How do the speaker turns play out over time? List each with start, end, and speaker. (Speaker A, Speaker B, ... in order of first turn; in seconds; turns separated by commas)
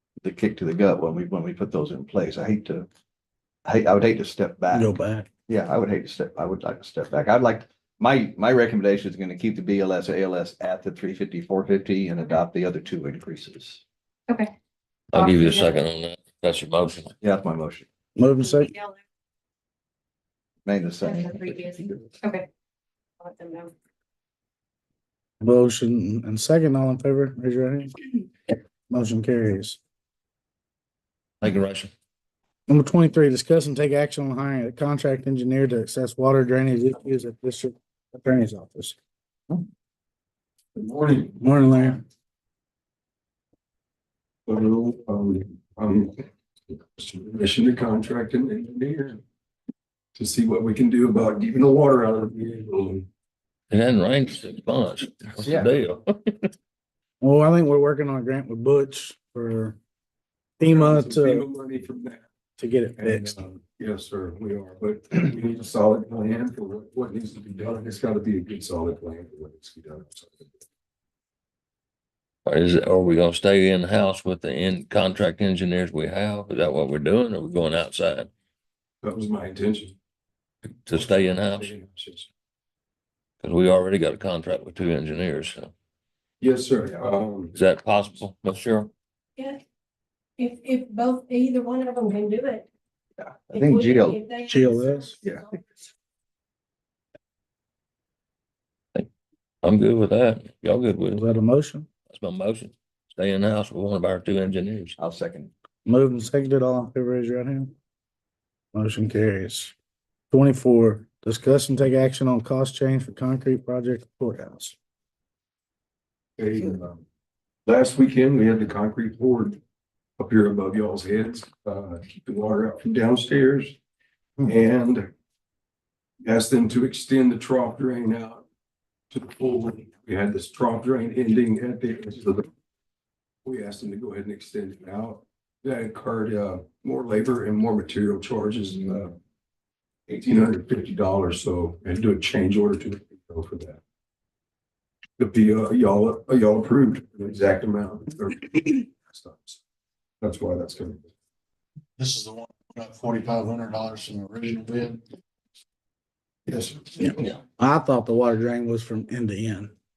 Speaker A: 0.2-2.9, Speaker A: 3.7-4.9, Speaker B: 4.7-5.3, Speaker A: 5.5-13.8, Speaker C: 15.1-15.8, Speaker D: 15.1-17.1, Speaker A: 17.2-17.9, Speaker B: 18.2-18.8, Speaker A: 20.6-22.0, Speaker C: 21.0-22.5, Speaker C: 23.2-23.7, Speaker B: 25.4-28.0, Speaker B: 28.9-29.8, Speaker D: 31.4-31.9, Speaker B: 32.7-39.0, Speaker E: 40.8-41.4, Speaker B: 41.4-42.0, Speaker E: 44.5-49.2, Speaker E: 50.1-53.1, Speaker D: 53.7-56.5, Speaker A: 55.4-55.7, Speaker B: 57.2-59.8, Speaker B: 60.6-61.5, Speaker E: 60.6-62.2, Speaker B: 62.6-63.4, Speaker E: 63.0-70.6, Speaker D: 72.5-78.3, Speaker E: 79.0-80.0, Speaker D: 80.8-81.7, Speaker E: 80.9-82.3, Speaker D: 83.4-85.7, Speaker E: 86.4-87.5, Speaker D: 87.5-88.9, Speaker F: 90.4-92.7, Speaker A: 93.2-94.2, Speaker F: 93.5-95.6, Speaker B: 94.4-95.2, Speaker D: 99.6-101.3, Speaker B: 101.1-101.9, Speaker D: 102.1-105.0, Speaker A: 105.0-105.5, Speaker B: 105.9-107.7, Speaker B: 108.7-109.7, Speaker B: 110.3-114.8, Speaker E: 116.4-117.0, Speaker E: 117.7-119.6, Speaker E: 120.2-123.8, Speaker E: 124.5-125.1, Speaker E: 126.2-128.4, Speaker E: 129.1-132.5, Speaker E: 133.4-139.2, Speaker E: 140.1-143.8, Speaker E: 145.2-149.6, Speaker E: 150.2-151.1, Speaker G: 152.0-155.0, Speaker E: 156.5-156.9, Speaker B: 157.0-159.7